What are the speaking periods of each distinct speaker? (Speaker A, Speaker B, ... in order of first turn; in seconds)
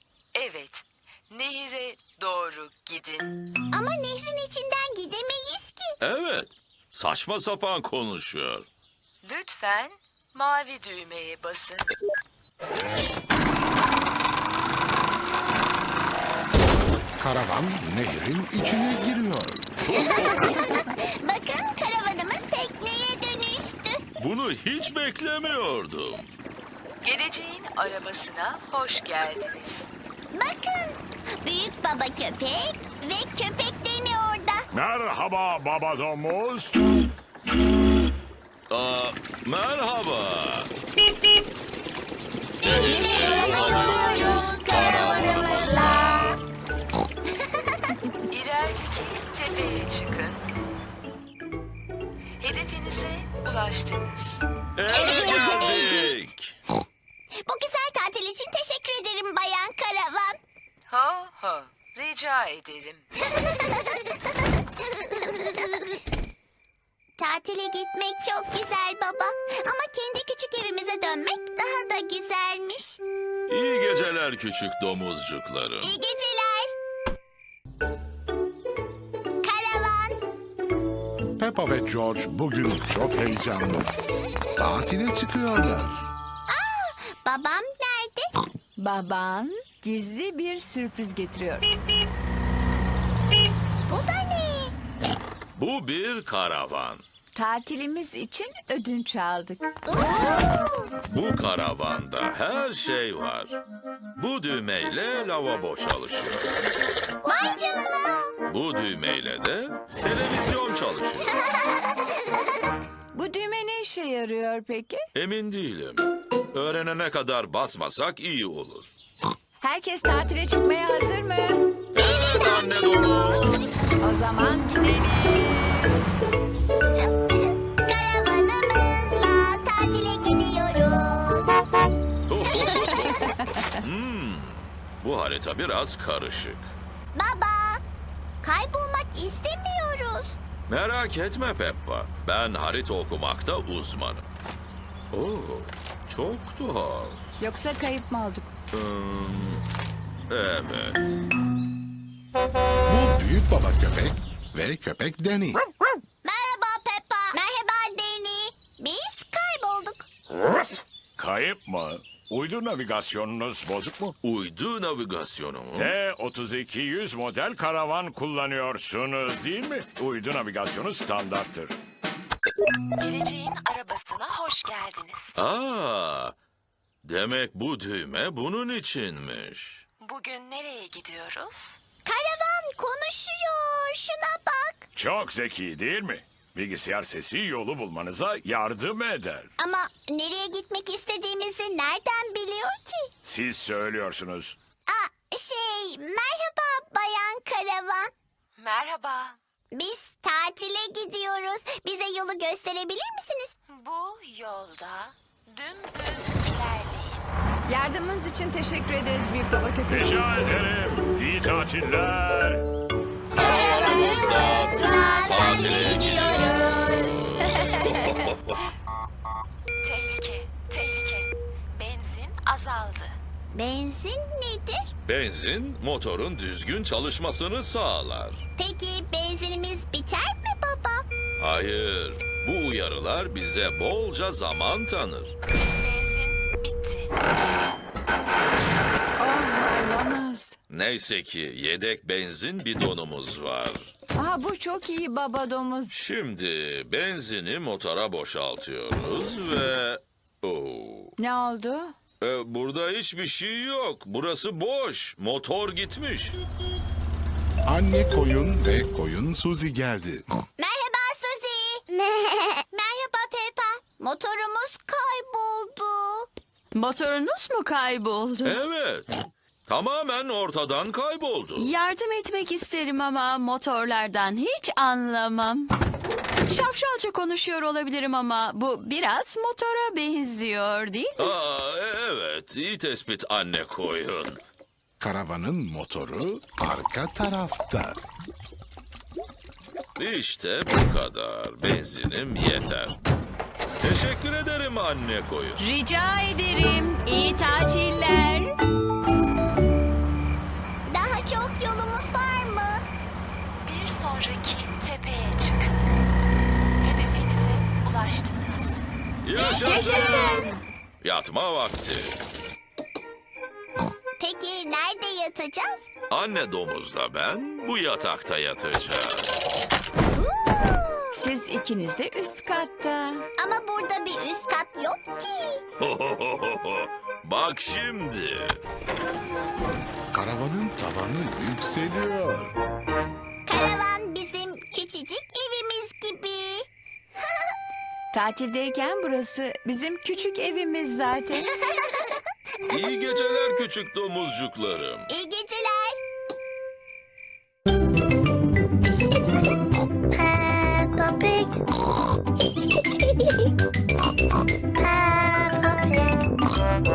Speaker A: 0.3-3.4, 9.2-12.0, 27.0-29.9, 48.3-50.4, 52.4-54.4, 54.9-55.5, 60.9-63.0, 173.0-175.4, 180.0-181.8, 198.6-199.4, 203.7-207.2, 219.8-223.2, 235.7-237.1, 303.6-305.8, 306.8-308.8
Speaker B: 3.7-6.0, 19.9-24.0, 30.3-34.7, 42.6-46.4, 54.9-56.1, 57.4-60.4, 63.3-64.1, 65.0-66.0, 67.2-73.0, 75.8-76.7, 79.4-80.2, 86.5-88.3, 93.9-94.7, 99.9-100.9, 107.2-108.3, 122.0-123.6, 127.0-131.6, 137.1-137.8, 138.4-140.4, 156.2-160.1, 182.1-184.9, 189.6-193.1, 194.9-198.1, 199.7-203.6, 213.4-217.3, 223.5-224.9, 228.6-231.1, 260.6-266.3, 300.9-302.8, 309.4-310.5, 314.2-315.9, 320.1-321.2, 323.4-325.6, 333.5-336.7, 345.1-346.0, 350.1-351.6, 352.9-353.3, 354.8-356.2
Speaker C: 6.0-8.7, 19.9-20.5, 24.2-26.3, 38.7-40.7, 42.6-46.3, 54.8-56.6, 73.5-75.9, 95.6-97.0, 101.1-103.6, 104.2-106.5, 108.5-111.3, 115.1-118.9, 121.9-123.6, 132.3-136.7, 140.7-144.3, 145.1-147.2, 148.7-149.6, 150.3-151.2, 164.2-166.0, 175.4-176.3, 177.0-179.8, 213.4-216.6, 217.1-218.6, 225.1-228.4, 231.4-235.4, 240.7-243.9, 245.9-251.2, 252.2-256.4, 268.4-269.1, 269.7-271.8, 281.2-284.4, 290.0-293.0, 293.8-295.7, 309.2-310.5, 311.0-312.2, 316.1-319.3, 325.8-328.6, 342.7-345.1
Speaker D: 17.2-19.7, 81.4-83.9, 84.5-86.0, 152.9-155.6, 257.7-260.2, 285.0-288.0, 330.1-332.5
Speaker E: 34.7-36.7, 161.2-164.2, 165.8-171.7, 184.9-189.5, 193.2-194.6, 209.9-212.6
Speaker F: 88.8-91.7, 97.3-99.7, 113.1-115.0, 119.6-121.7, 124.0-126.0, 147.4-148.5, 207.7-210.2, 239.2-240.6, 244.2-246.0, 251.2-251.9, 295.6-298.4, 321.1-323.3, 338.1-341.5
Speaker G: 266.8-268.6, 271.6-275.7, 276.5-281.2